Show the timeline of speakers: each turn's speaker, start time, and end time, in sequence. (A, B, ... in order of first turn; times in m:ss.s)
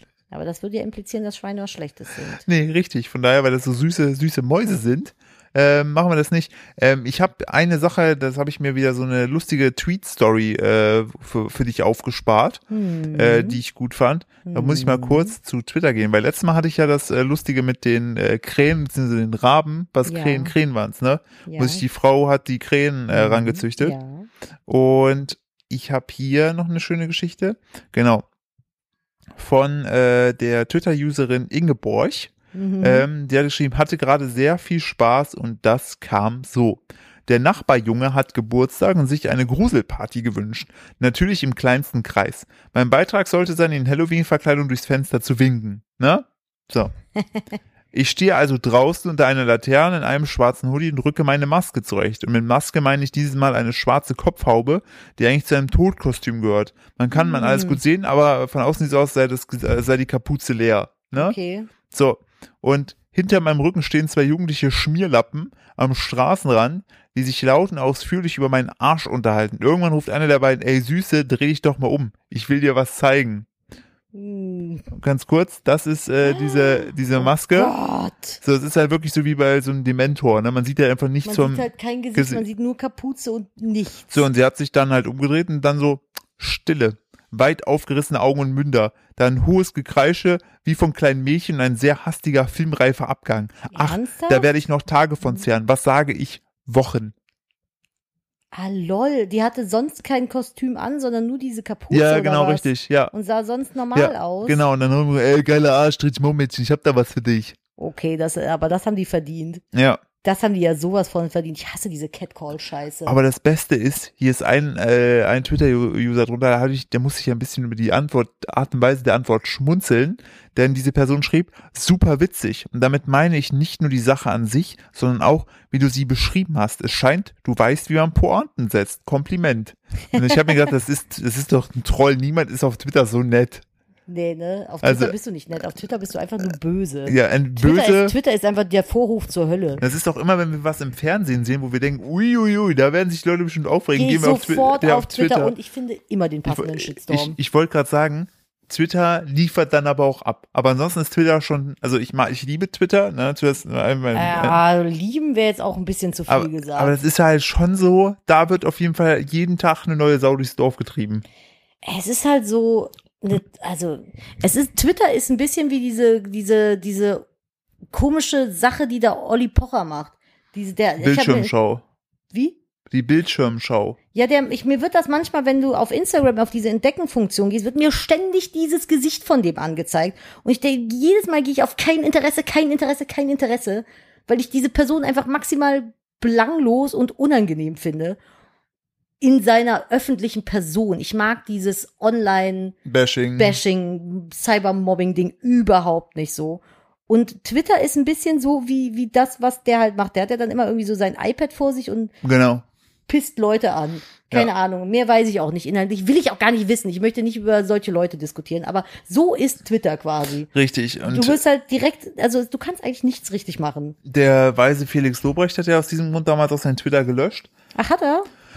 0:00.3-0:02.4 A
0:02.4-0:12.6 B
0:12.7-0:13.6 A
0:13.1-0:24.0 B
0:14.4-0:15.4 A
0:20.0-0:20.5 A
0:21.5-0:21.8 A
0:23.1-0:24.3 A
0:24.7-0:28.2 B
0:29.4-0:46.9 B
0:32.5-0:33.1 A
0:47.9-1:01.4 B
0:57.1-0:57.8 A
1:01.1-1:01.7 A
1:01.9-1:13.5 B
1:14.1-1:14.9 A
1:14.9-1:17.7 B
1:16.2-1:18.4 A
1:18.4-1:22.4 B
1:21.2-1:24.3 A
1:24.1-1:37.1 B
1:33.7-1:34.5 A
1:38.5-1:44.6 A
1:41.9-1:43.1 B
1:44.0-1:47.6 B
1:47.8-1:49.6 A
1:49.7-1:50.0 B
1:50.2-1:53.2 A
1:53.1-2:13.6 B
2:14.1-2:19.8 A
2:14.8-2:15.1 B
2:17.1-2:18.2 B
2:19.8-2:25.5 B
2:24.0-2:27.4 A
2:26.5-2:34.6 B
2:34.1-2:37.0 A
2:36.3-2:41.2 B
2:41.8-2:47.2 A
2:47.9-2:51.5 A
2:51.0-2:51.8 B
2:52.3-2:52.6 A
2:52.9-2:54.0 B
2:54.1-3:08.2 A
3:09.2-3:12.8 A
3:12.9-3:13.6 B
3:13.4-3:22.1 A
3:22.2-3:22.6 B
3:23.1-3:30.5 A
3:30.5-3:31.4 B
3:31.1-3:34.0 A
3:34.1-3:37.5 B
3:37.8-3:38.3 A